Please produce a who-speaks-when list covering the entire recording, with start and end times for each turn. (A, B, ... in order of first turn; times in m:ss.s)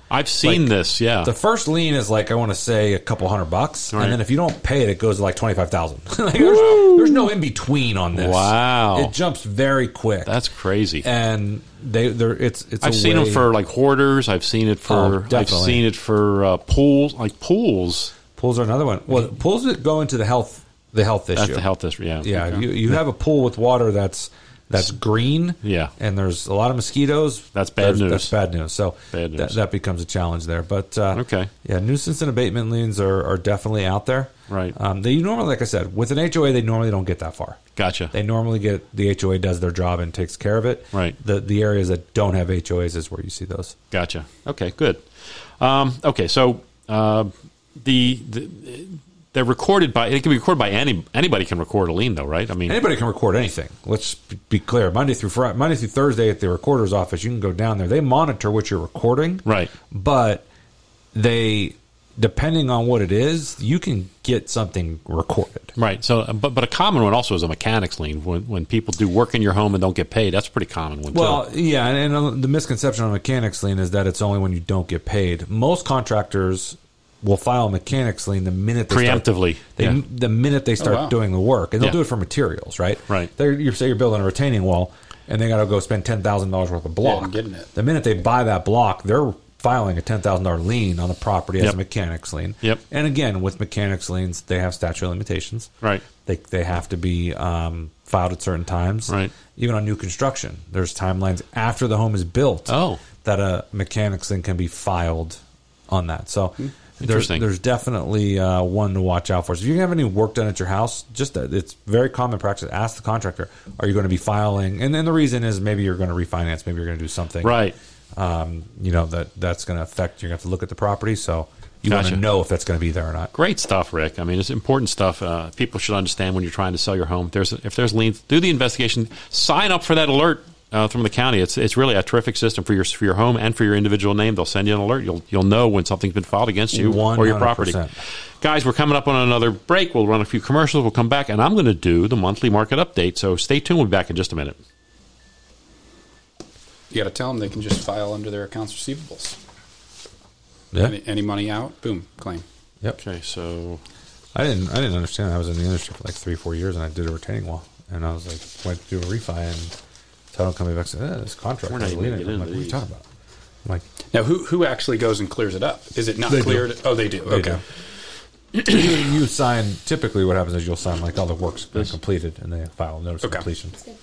0:00.1-0:01.3 A
0:00.4-0:10.3 B
0:03.9-0:04.2 A
0:08.1-0:09.1 A
0:10.2-0:11.0 A
0:11.0-0:13.5 B
0:12.8-0:18.1 A
0:14.9-0:15.8 B
0:18.4-0:21.6 B
0:21.3-0:22.6 A
0:22.2-0:37.6 B
0:25.6-0:25.9 A
0:27.5-0:28.3 A
0:29.1-0:29.6 A
0:31.1-0:31.5 A
0:34.5-0:34.7 A
0:37.8-0:38.1 A
0:38.1-0:43.7 B
0:43.9-0:45.0 A
0:45.6-0:52.8 A
0:52.6-1:00.4 B
0:59.4-0:59.7 A
1:01.1-1:05.7 B
1:05.8-1:11.5 A
1:11.1-1:35.7 B
1:18.9-1:20.0 A
1:20.8-1:21.1 C
1:27.0-1:27.7 C
1:36.2-1:57.6 B
1:39.1-1:39.3 A
1:42.7-1:43.0 A
1:47.0-1:47.4 A
1:57.4-1:57.7 A
1:58.1-2:03.3 B
2:01.9-2:02.2 A
2:03.3-2:17.8 A
2:16.7-2:17.9 B
2:18.4-2:24.6 A
2:26.9-2:29.4 C
2:30.8-2:32.4 C
2:33.0-2:33.8 A
2:34.3-2:39.7 B
2:40.3-2:43.0 B
2:41.7-2:42.8 A
2:44.1-2:47.6 C
2:46.3-2:47.6 B
2:48.5-2:53.8 B